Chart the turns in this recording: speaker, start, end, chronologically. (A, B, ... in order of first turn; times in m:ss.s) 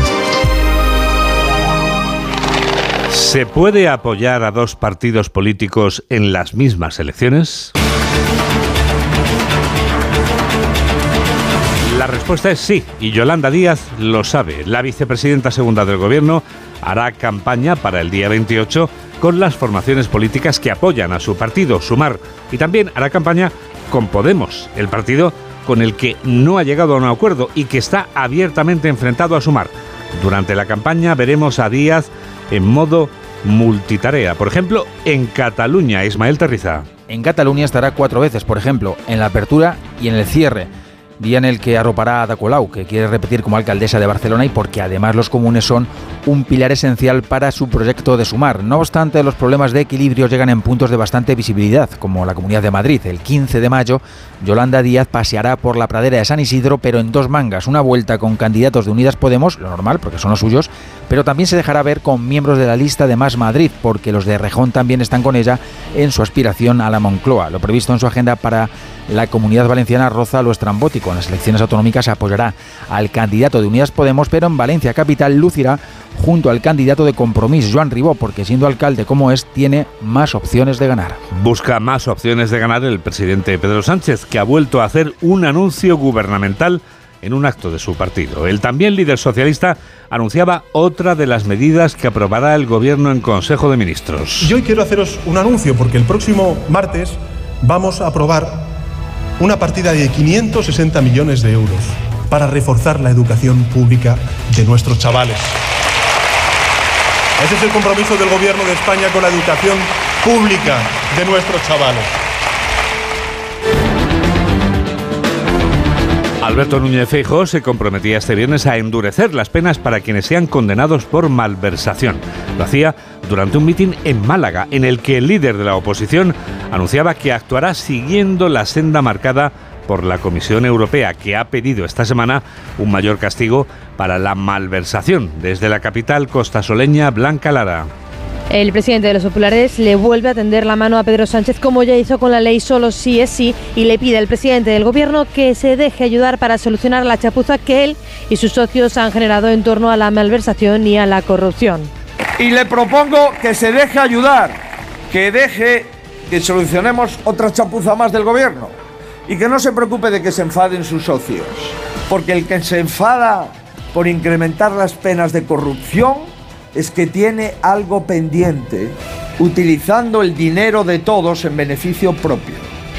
0:03.1-0:07.7 A
0:11.8-0:36.9 A
0:37.1-1:21.2 B
1:21.3-1:34.5 A
1:34.4-1:38.7 C
1:39.4-1:45.6 C
1:47.4-1:52.2 C
1:56.4-2:17.9 A
2:18.5-2:31.9 D
2:32.4-2:38.8 E
2:39.3-2:52.7 E